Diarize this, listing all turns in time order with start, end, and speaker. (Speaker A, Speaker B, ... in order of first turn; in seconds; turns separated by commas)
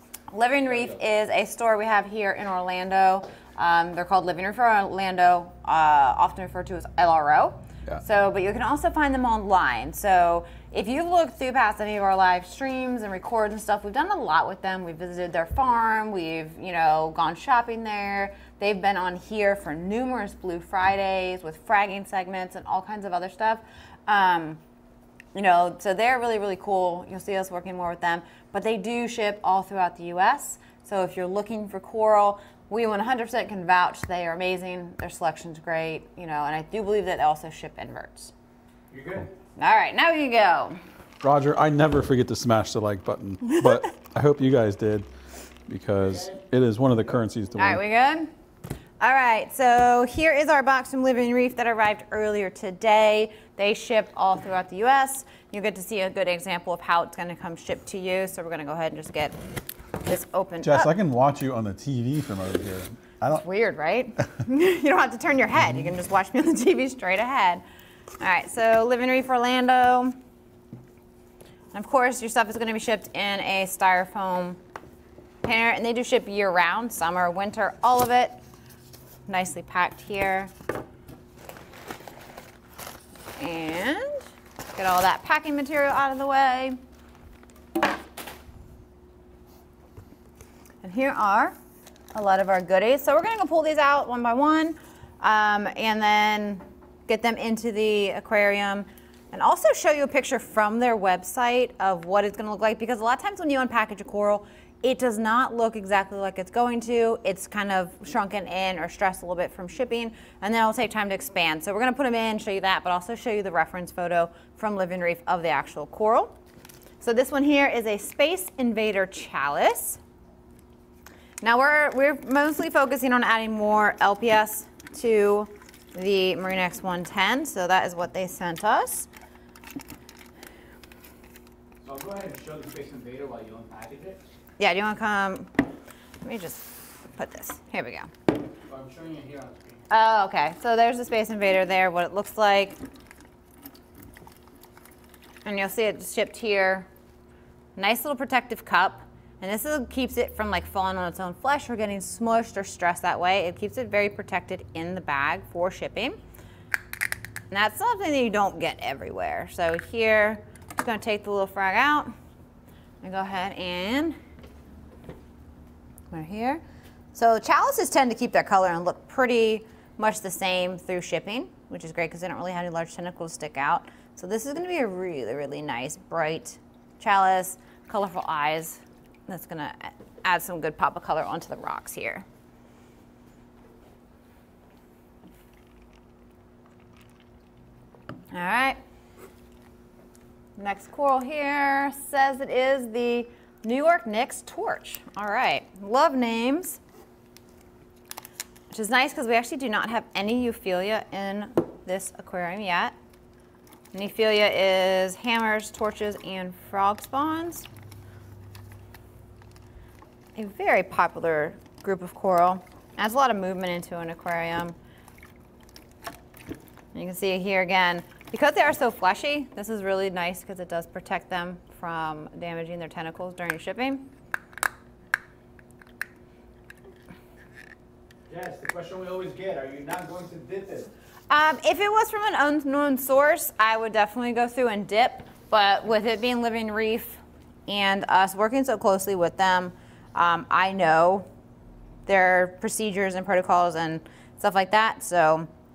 Speaker A: 0.3-24.6, Speaker A: 25.3-38.3, Speaker B: 38.9-39.3, Speaker A: 39.6-40.8, Speaker C: 41.2-45.1, Speaker A: 43.4-43.7, Speaker C: 45.7-47.8, Speaker B: 46.0-46.3, Speaker A: 47.6-48.3, Speaker A: 49.0-59.4, Speaker A: 60.0-60.9, Speaker C: 60.6-63.4, Speaker A: 63.3-67.6, Speaker A: 68.2-70.2, Speaker A: 71.7-74.6, Speaker A: 75.4-78.4, Speaker A: 79.3-80.5, Speaker A: 83.3-86.8, Speaker A: 90.8-91.5, Speaker A: 92.1-116.3, Speaker A: 117.0-120.0, Speaker A: 121.4-129.1, Speaker B: 131.8-134.2, Speaker A: 134.6-135.5, Speaker A: 136.2-138.1, Speaker B: 138.7-139.8, Speaker A: 139.9-142.8, Speaker A: 145.4-146.9, Speaker A: 147.8-156.2, Speaker A: 157.5-162.1, Speaker A: 163.0-164.2, Speaker A: 166.1-166.6, Speaker A: 167.1-182.2, Speaker A: 188.3-188.8, Speaker A: 190.6-196.8, Speaker A: 198.7-202.9, Speaker A: 203.9-207.7, Speaker A: 210.3-214.8, Speaker A: 216.9-224.1, Speaker B: 228.3-230.9, Speaker A: 231.3-241.2, Speaker A: 242.1-245.5